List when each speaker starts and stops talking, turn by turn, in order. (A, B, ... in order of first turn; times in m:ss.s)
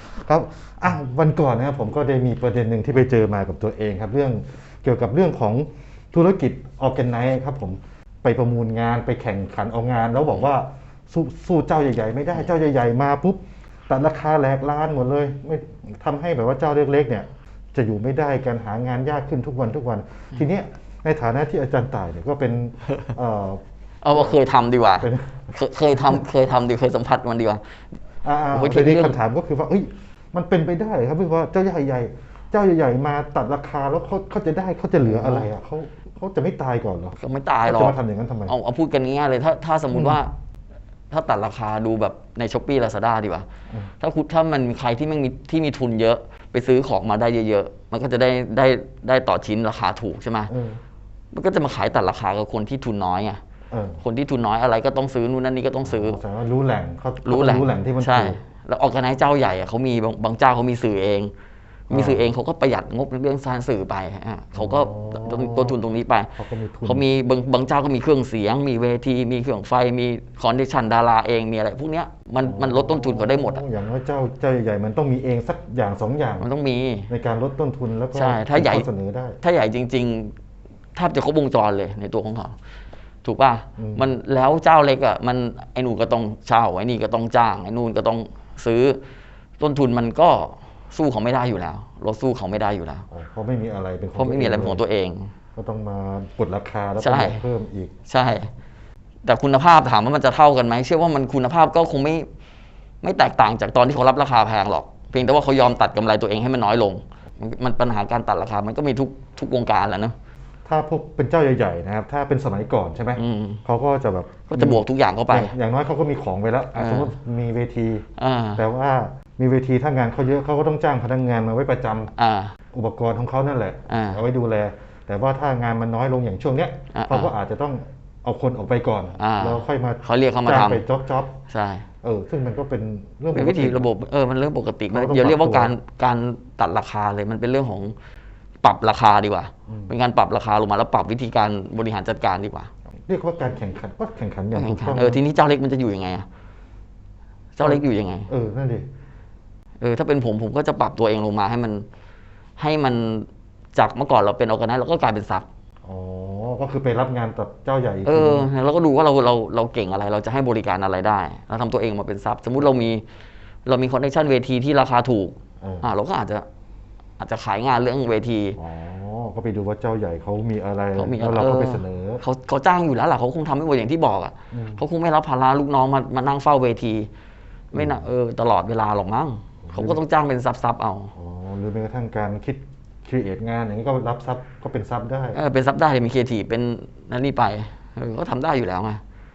0:00.1-0:23.6 A
0:24.0-0:27.6 B
0:25.0-0:25.5 A
0:28.2-0:38.5 A
0:28.5-0:29.2 B
0:35.0-0:35.5 B
0:37.2-0:40.3 B
0:39.9-0:40.2 A
0:41.1-0:43.5 B
0:44.0-0:50.5 B
0:50.5-0:50.8 A
0:51.3-0:53.4 B
0:53.7-0:54.0 A
0:54.0-0:56.2 B
0:55.8-0:58.4 A
0:57.2-1:01.3 B
1:01.9-1:13.6 B
1:01.9-1:02.3 A
1:04.6-1:05.8 A
1:06.4-1:07.0 A
1:12.4-1:16.5 A
1:16.4-1:17.1 B
1:17.1-1:19.4 A
1:18.1-1:18.9 B
1:19.4-1:20.3 B
1:21.0-1:22.6 B
1:23.2-1:29.0 B
1:23.8-1:24.1 A
1:29.6-1:33.1 B
1:33.1-1:34.8 A
1:34.2-1:35.3 B
1:35.6-1:37.9 A
1:37.0-1:37.4 B
1:38.1-1:38.5 B
1:39.2-1:42.3 B
1:43.0-1:50.2 B
1:50.6-1:58.0 A
1:53.2-1:53.6 B
1:54.5-1:55.6 B
1:56.8-1:57.1 B
1:58.2-1:58.6 B
1:58.6-2:02.1 A
2:02.2-2:02.6 B
2:02.7-2:11.3 A
2:03.9-2:04.2 B
2:06.9-2:07.3 B
2:09.2-2:10.8 B
2:11.5-2:11.9 B
2:12.0-2:13.9 A
2:13.3-2:18.0 B
2:14.9-2:15.7 A
2:18.6-2:22.7 B
2:19.7-2:19.9 A
2:23.1-2:25.2 A
2:24.5-2:26.3 B
2:27.6-2:28.3 B
2:27.6-2:28.9 A
2:29.8-2:31.9 B
2:32.6-2:35.5 B
2:35.8-2:38.5 A
2:38.0-2:43.0 B
2:43.7-2:46.5 B
2:45.6-2:45.9 A
2:47.2-2:48.6 B
2:48.6-2:52.2 A
2:51.0-2:57.1 B
2:54.5-2:54.8 A
2:57.7-3:01.1 B
2:57.8-2:58.1 A
2:59.6-3:00.0 A
3:01.1-3:05.4 A
3:05.3-3:09.0 B